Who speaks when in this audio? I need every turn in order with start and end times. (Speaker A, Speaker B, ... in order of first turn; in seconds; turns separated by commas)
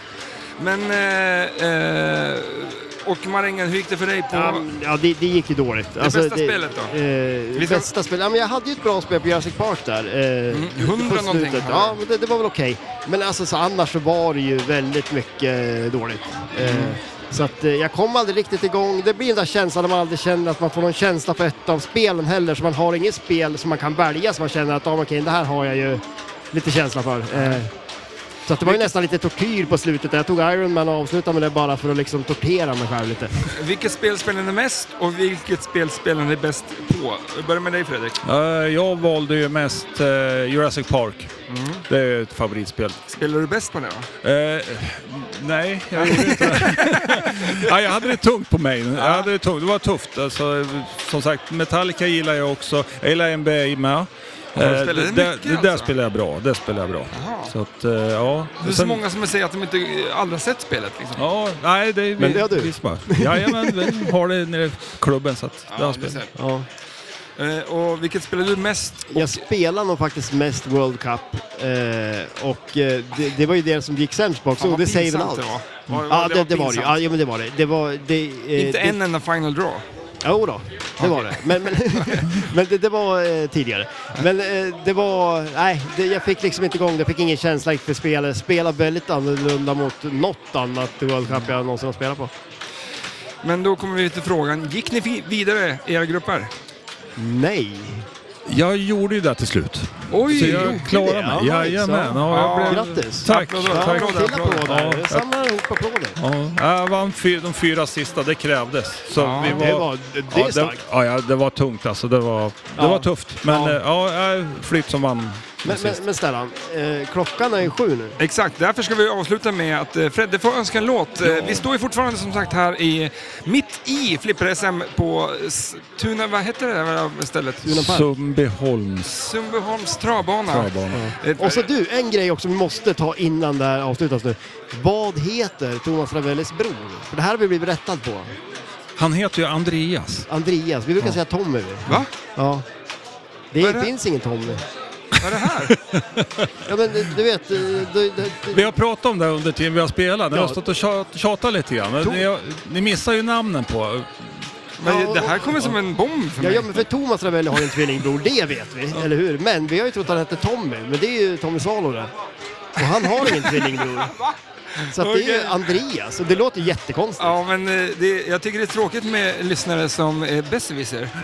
Speaker A: 0.6-4.7, Speaker B: 4.3-27.7, Speaker A: 6.0-7.0, Speaker A: 7.5-7.9, Speaker A: 10.5-12.0, Speaker A: 16.6-17.0, Speaker A: 27.3-27.6, Speaker B: 28.5-33.4, Speaker A: 33.5-38.2, Speaker C: 38.2-41.3, Speaker A: 41.5-41.8, Speaker C: 41.9-43.0, Speaker A: 43.1-44.1, Speaker C: 44.2-59.0, Speaker A: 45.9-47.7, Speaker A: 48.9-49.3, Speaker A: 54.6-55.9, Speaker A: 57.1-57.5, Speaker A: 58.6-61.2, Speaker C: 61.1-66.2, Speaker B: 62.2-64.1, Speaker A: 65.7-66.3, Speaker B: 66.4-66.7, Speaker A: 67.4-69.4, Speaker B: 69.1-79.0, Speaker A: 74.6-77.0, Speaker A: 78.5-79.8, Speaker B: 80.2-92.3, Speaker A: 81.0-82.4, Speaker A: 93.4-96.5, Speaker B: 97.2-98.1, Speaker C: 98.5-105.3, Speaker A: 100.1-100.9, Speaker B: 100.3-106.2, Speaker A: 102.3-104.7, Speaker C: 106.2-116.0, Speaker A: 109.2-109.6, Speaker B: 109.4-110.8, Speaker B: 112.8-113.8, Speaker B: 115.6-118.2, Speaker A: 118.2-127.7, Speaker C: 121.2-121.6, Speaker B: 127.6-128.1, Speaker C: 127.7-129.3, Speaker A: 129.1-131.7, Speaker C: 130.5-131.1, Speaker B: 130.9-138.3, Speaker C: 138.9-140.3, Speaker B: 140.3-142.6, Speaker B: 143.5-144.6, Speaker A: 143.6-143.9, Speaker A: 145.2-145.7, Speaker C: 145.7-146.5, Speaker B: 146.6-148.7, Speaker C: 148.5-154.4, Speaker B: 150.3-150.6, Speaker A: 154.8-156.8, Speaker B: 154.8-155.7, Speaker B: 156.4-162.1, Speaker B: 162.8-164.1, Speaker A: 164.1-165.6, Speaker B: 164.9-167.3, Speaker A: 167.2-171.1